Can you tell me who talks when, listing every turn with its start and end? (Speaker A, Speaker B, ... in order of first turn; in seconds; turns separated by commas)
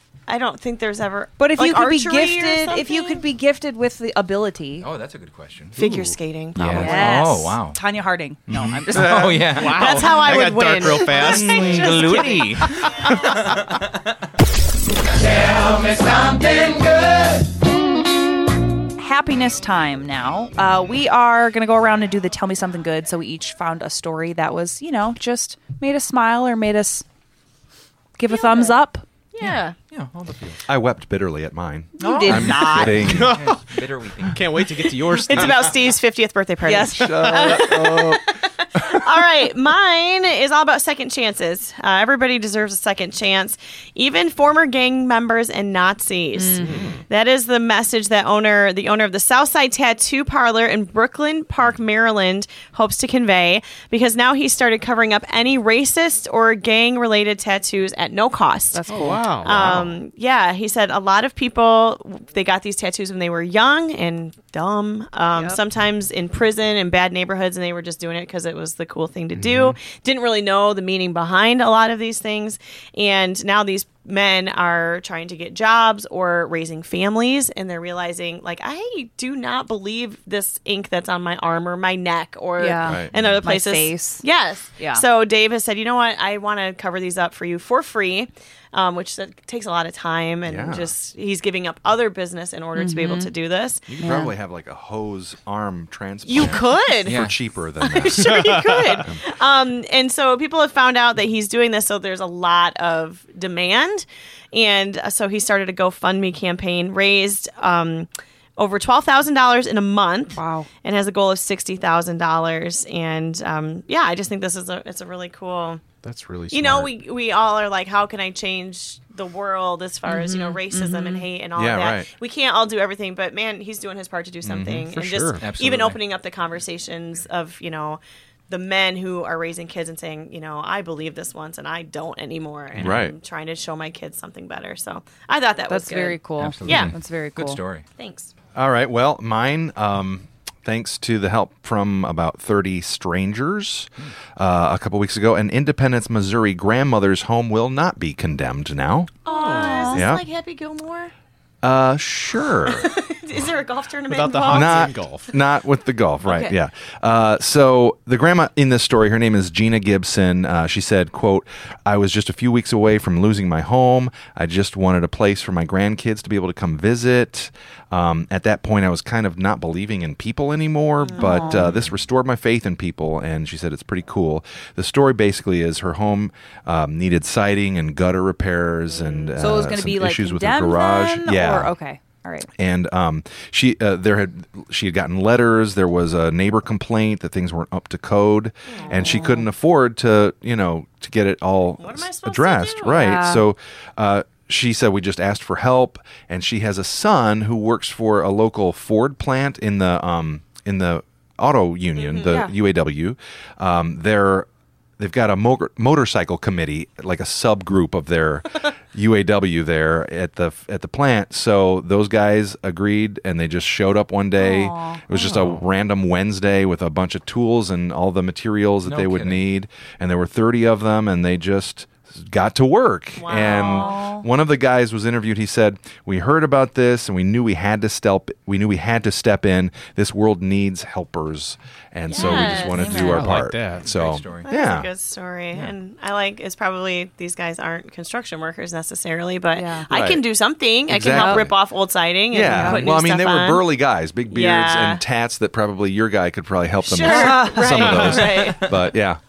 Speaker A: 0.3-3.2, Speaker B: 1.4-4.9, Speaker C: 4.8-5.8, Speaker A: 5.8-7.2, Speaker C: 6.5-7.8, Speaker B: 6.7-9.4, Speaker C: 8.5-10.0, Speaker D: 9.5-12.0, Speaker A: 9.7-13.1, Speaker C: 11.2-13.8, Speaker D: 12.6-12.9, Speaker C: 15.3-17.3, Speaker B: 19.0-27.0, Speaker B: 28.2-29.0, Speaker A: 28.3-28.7, Speaker A: 29.3-29.7, Speaker C: 29.4-30.6, Speaker E: 30.7-33.4, Speaker B: 32.0-33.1, Speaker C: 32.0-34.4, Speaker D: 33.0-33.6, Speaker D: 34.2-35.7, Speaker A: 35.2-93.9, Speaker B: 36.6-37.5, Speaker E: 36.9-38.2, Speaker D: 37.7-38.0, Speaker B: 46.4-46.7, Speaker E: 46.6-47.0, Speaker B: 58.7-59.3, Speaker D: 58.9-59.7, Speaker E: 59.4-60.0, Speaker B: 65.3-65.6, Speaker D: 69.4-69.7, Speaker B: 82.6-84.2, Speaker E: 82.8-83.4, Speaker B: 84.8-85.0, Speaker E: 90.5-90.9, Speaker B: 92.8-93.3, Speaker E: 93.9-99.2, Speaker B: 94.0-94.3, Speaker A: 96.2-97.2, Speaker C: 97.0-97.3, Speaker A: 97.8-115.8, Speaker D: 98.2-99.0, Speaker B: 110.3-110.7, Speaker D: 116.0-116.9, Speaker A: 116.5-136.9, Speaker B: 120.0-121.3, Speaker E: 121.5-122.1, Speaker E: 124.4-124.8, Speaker D: 124.9-125.4, Speaker C: 125.4-126.0, Speaker E: 132.8-133.1, Speaker B: 135.7-137.6, Speaker C: 136.4-137.8, Speaker A: 138.0-138.3, Speaker E: 138.5-149.1, Speaker A: 149.2-151.1, Speaker B: 149.3-150.0, Speaker D: 149.3-149.8, Speaker E: 149.9-150.2, Speaker E: 151.6-152.9, Speaker A: 152.6-154.9, Speaker D: 154.1-155.3, Speaker E: 154.5-181.7, Speaker A: 156.2-156.5, Speaker A: 171.0-171.8, Speaker B: 171.1-171.7, Speaker A: 178.9-179.4, Speaker B: 179.4-182.5, Speaker E: 182.6-204.5, Speaker A: 188.7-189.2, Speaker B: 188.9-189.5, Speaker A: 191.8-193.2, Speaker B: 192.9-193.4, Speaker A: 201.9-202.5, Speaker E: 205.0-234.9, Speaker B: 214.4-215.1, Speaker D: 215.2-215.6, Speaker C: 218.8-219.4, Speaker A: 223.2-224.0, Speaker B: 223.3-224.2, Speaker A: 232.1-233.0, Speaker B: 232.2-233.3, Speaker C: 232.2-232.6, Speaker D: 232.9-233.9, Speaker C: 233.8-234.5, Speaker A: 234.4-243.6, Speaker B: 239.5-239.9, Speaker E: 239.9-240.2, Speaker E: 240.9-241.6, Speaker B: 241.1-241.5, Speaker E: 242.3-249.2, Speaker B: 242.4-242.9, Speaker A: 244.3-245.0, Speaker A: 246.8-248.7, Speaker B: 247.0-248.2, Speaker C: 248.3-248.7